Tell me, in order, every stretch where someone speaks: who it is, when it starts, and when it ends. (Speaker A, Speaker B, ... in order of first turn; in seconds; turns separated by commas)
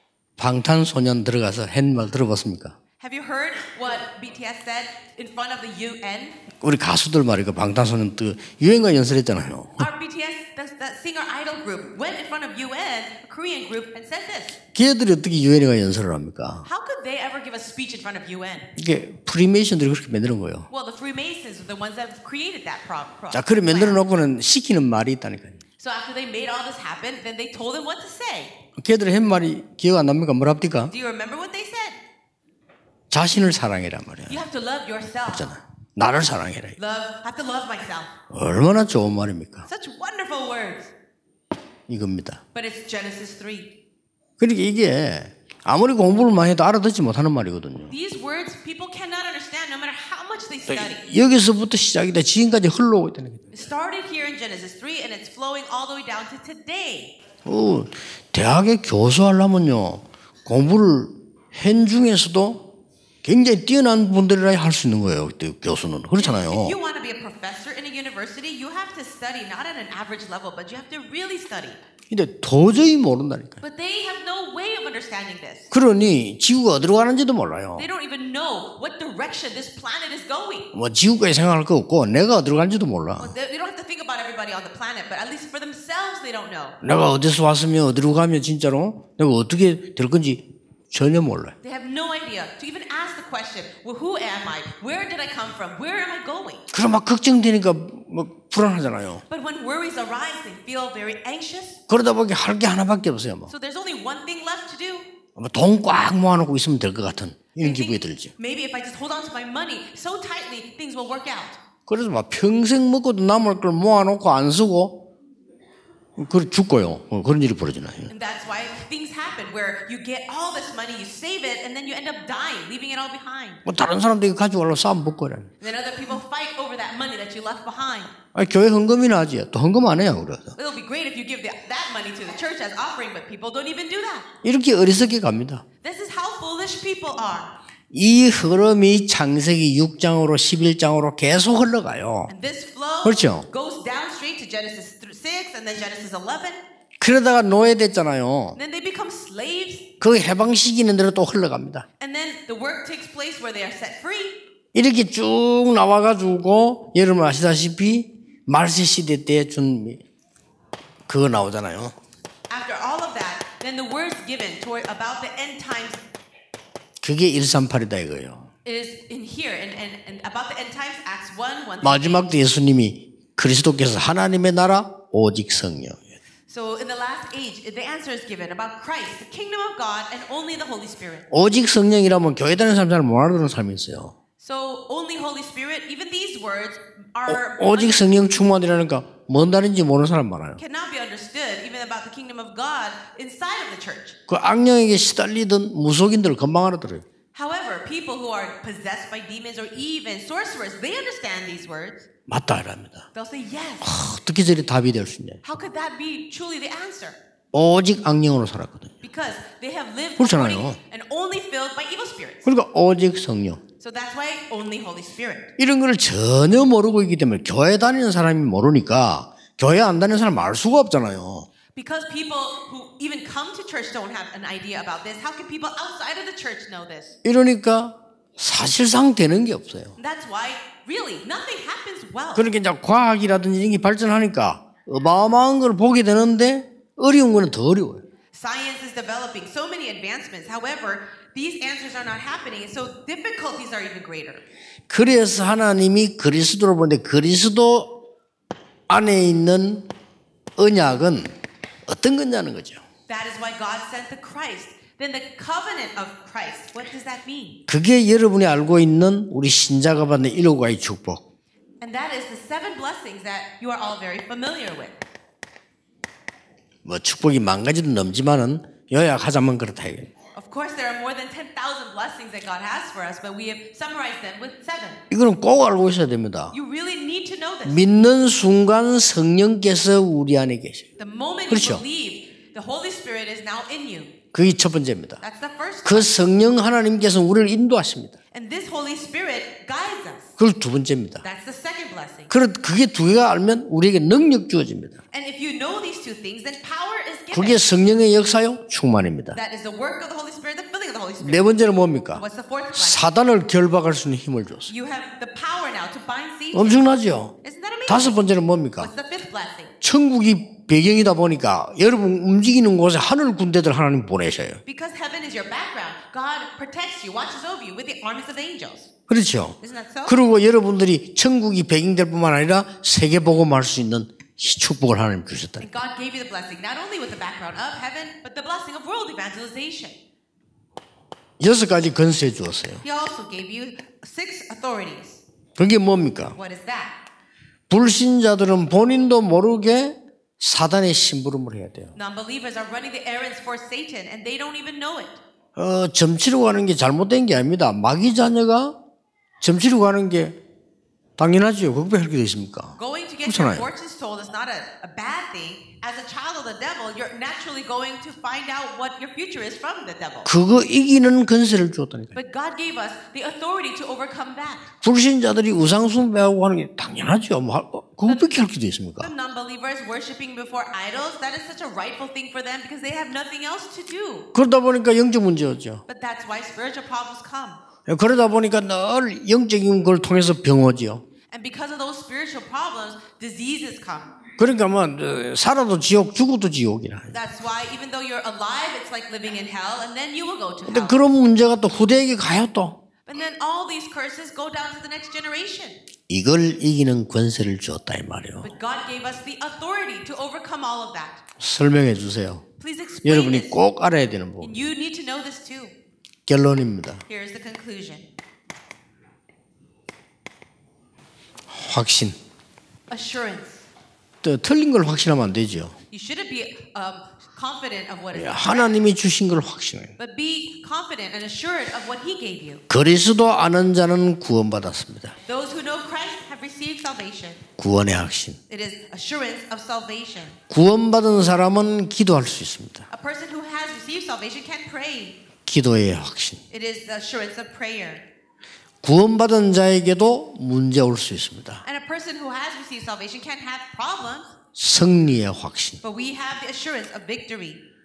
Speaker A: 0.4-2.8, Speaker B: 3.0-6.4, Speaker A: 6.6-9.9, Speaker B: 9.8-14.6, Speaker A: 14.7-16.6, Speaker B: 16.6-18.7, Speaker A: 18.8-20.7, Speaker B: 20.7-24.0, Speaker A: 23.3-25.6, Speaker B: 25.8-28.5, Speaker A: 28.8-30.9, Speaker B: 30.9-32.0, Speaker A: 33.1-34.4, Speaker B: 34.3-35.5, Speaker A: 35.2-36.8, Speaker B: 36.8-38.1, Speaker A: 38.3-39.7, Speaker B: 39.7-40.9, Speaker A: 41.9-42.4, Speaker B: 42.5-43.7, Speaker A: 44.4-47.9, Speaker B: 47.9-51.0, Speaker A: 50.7-53.5, Speaker B: 53.5-57.1, Speaker A: 57.4-62.7, Speaker A: 63.2-66.8, Speaker B: 66.2-71.8, Speaker A: 72.1-73.6, Speaker B: 73.6-75.7, Speaker A: 75.7-77.9, Speaker B: 77.8-80.7, Speaker A: 80.7-83.3, Speaker B: 83.2-86.8, Speaker A: 86.8-91.5, Speaker B: 91.6-96.6, Speaker A: 96.7-99.2, Speaker B: 99.3-101.8, Speaker A: 101.9-103.5, Speaker B: 103.5-105.1, Speaker A: 105.3-108.3, Speaker B: 107.6-111.6, Speaker A: 111.9-115.1, Speaker A: 116.2-118.1, Speaker B: 118.1-123.6, Speaker A: 123.6-125.5, Speaker B: 125.6-128.1, Speaker A: 128.3-130.5, Speaker B: 130.6-134.3, Speaker A: 134.4-135.6, Speaker B: 135.8-137.5, Speaker A: 137.9-142.3, Speaker B: 142.3-146.6, Speaker A: 143.0-143.5, Speaker A: 147.0-148.6, Speaker B: 148.5-149.9, Speaker A: 150.0-151.8, Speaker B: 152.0-154.4, Speaker A: 154.7-160.0, Speaker A: 161.1-161.9, Speaker B: 162.5-166.0, Speaker A: 167.0-168.5, Speaker B: 168.6-172.3, Speaker A: 171.8-176.2, Speaker B: 176.5-181.2, Speaker A: 181.3-184.1, Speaker B: 184.4-188.2, Speaker A: 187.3-190.6, Speaker B: 190.6-194.2, Speaker A: 194.3-197.0, Speaker B: 197.3-202.1, Speaker A: 202.3-203.1, Speaker B: 203.1-203.9, Speaker A: 203.8-205.4, Speaker B: 205.4-207.2, Speaker A: 207.5-208.9, Speaker B: 209.0-212.4, Speaker A: 210.2-210.8, Speaker A: 212.4-213.6, Speaker B: 213.8-215.5, Speaker A: 215.6-221.5, Speaker B: 221.7-227.2, Speaker A: 227.2-229.9, Speaker B: 230.0-232.5, Speaker A: 232.3-238.0, Speaker B: 238.3-244.4, Speaker A: 244.9-248.0, Speaker A: 248.9-249.9, Speaker A: 250.6-251.3, Speaker A: 251.8-252.8, Speaker B: 253.1-257.6, Speaker A: 257.7-261.2, Speaker B: 261.8-265.0, Speaker A: 266.8-270.1, Speaker B: 270.3-275.0, Speaker A: 275.1-276.5, Speaker B: 276.5-277.8, Speaker A: 277.6-280.9, Speaker B: 281.0-284.1, Speaker A: 281.5-281.8, Speaker A: 284.3-285.2, Speaker B: 285.2-286.1, Speaker A: 285.8-288.1, Speaker B: 288.3-290.3, Speaker A: 290.4-291.2, Speaker B: 291.2-292.3, Speaker A: 292.3-295.0, Speaker B: 295.1-297.6, Speaker A: 297.3-299.4, Speaker B: 299.3-301.5, Speaker A: 301.2-304.7, Speaker B: 302.1-303.1, Speaker B: 304.7-306.9, Speaker A: 306.5-307.3, Speaker B: 307.4-308.2, Speaker A: 307.9-308.9, Speaker B: 308.8-309.7, Speaker A: 309.8-314.6, Speaker B: 314.6-318.9, Speaker A: 319.1-325.7, Speaker B: 319.6-320.2, Speaker B: 325.6-330.0, Speaker A: 331.4-332.8, Speaker B: 332.8-335.2, Speaker A: 335.6-336.4, Speaker B: 336.3-337.0, Speaker A: 337.7-341.9, Speaker B: 341.9-345.2, Speaker A: 345.6-348.8, Speaker A: 349.4-350.4, Speaker A: 351.2-353.7, Speaker B: 352.8-360.3, Speaker A: 360.2-362.1, Speaker B: 362.1-364.7, Speaker A: 364.8-369.1, Speaker B: 368.1-368.3, Speaker B: 369.0-374.3, Speaker A: 374.3-375.8, Speaker B: 375.9-377.6, Speaker A: 377.9-381.0, Speaker B: 381.3-384.1, Speaker A: 384.4-387.1, Speaker B: 387.1-391.0, Speaker A: 390.6-392.8, Speaker B: 393.1-395.8, Speaker A: 396.1-398.5, Speaker B: 398.4-401.2, Speaker A: 401.4-402.4, Speaker B: 402.6-403.6, Speaker A: 403.0-404.6, Speaker B: 404.4-405.7, Speaker A: 406.2-407.0, Speaker B: 407.1-408.1, Speaker A: 411.5-412.1, Speaker B: 412.9-413.6, Speaker A: 414.2-415.7, Speaker B: 415.9-418.8, Speaker A: 418.1-419.9, Speaker B: 420.0-422.6, Speaker A: 422.7-425.1, Speaker B: 425.2-427.4, Speaker A: 427.6-428.4, Speaker B: 428.5-430.4, Speaker A: 430.5-432.9, Speaker B: 432.9-435.1, Speaker A: 435.4-436.4, Speaker B: 436.5-438.0, Speaker A: 438.8-441.6, Speaker B: 441.6-444.3, Speaker A: 444.5-445.8, Speaker B: 445.8-447.6